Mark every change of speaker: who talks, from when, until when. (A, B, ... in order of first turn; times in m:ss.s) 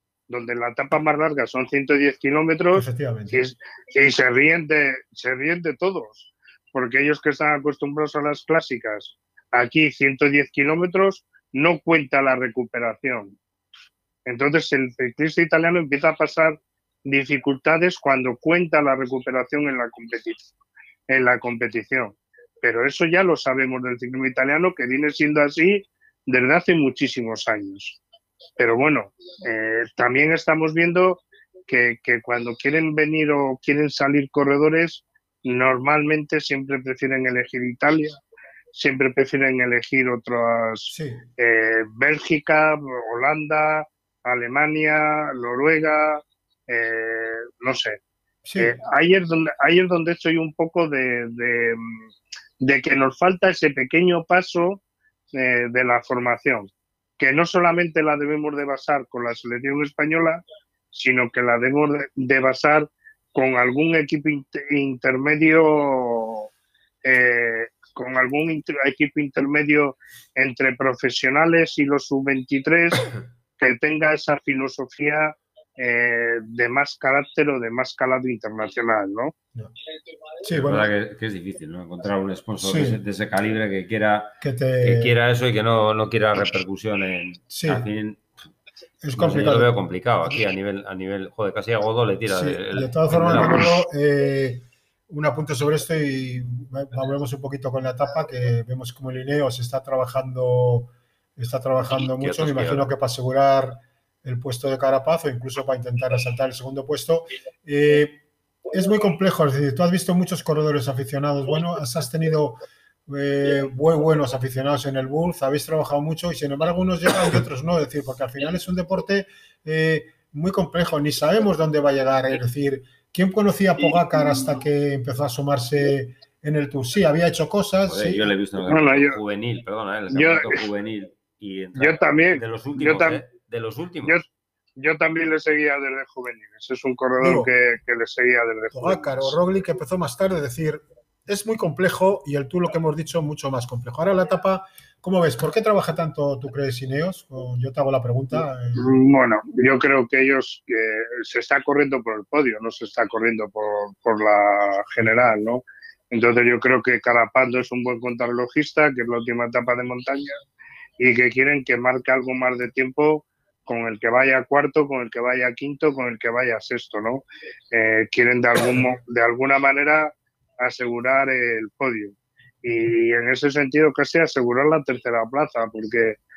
0:00.3-0:13.4 A
0:02.7-0:03.4 B
0:14.3-0:20.5 A
0:21.1-0:28.0 A
0:28.6-0:38.2 A
0:38.7-0:48.0 A
0:40.9-0:41.3 B
0:48.4-0:48.8 B
0:48.6-0:52.1 A
0:52.6-0:54.8 A
0:55.3-1:06.5 A
1:07.0-1:19.3 A
1:20.4-1:20.9 B
1:20.5-1:28.2 C
1:22.6-1:23.0 B
1:24.4-1:25.2 B
1:27.5-1:27.9 B
1:29.0-1:29.7 B
1:29.2-1:33.8 C
1:32.3-1:48.2 B
1:42.0-1:42.9 C
1:48.7-1:52.6 B
1:53.1-2:08.3 B
2:07.9-2:14.2 C
2:08.7-2:09.2 A
2:10.1-2:10.6 A
2:11.8-2:13.2 A
2:14.0-2:19.3 A
2:17.2-2:17.5 B
2:18.7-2:28.9 B
2:28.8-2:40.4 A
2:41.0-2:56.2 A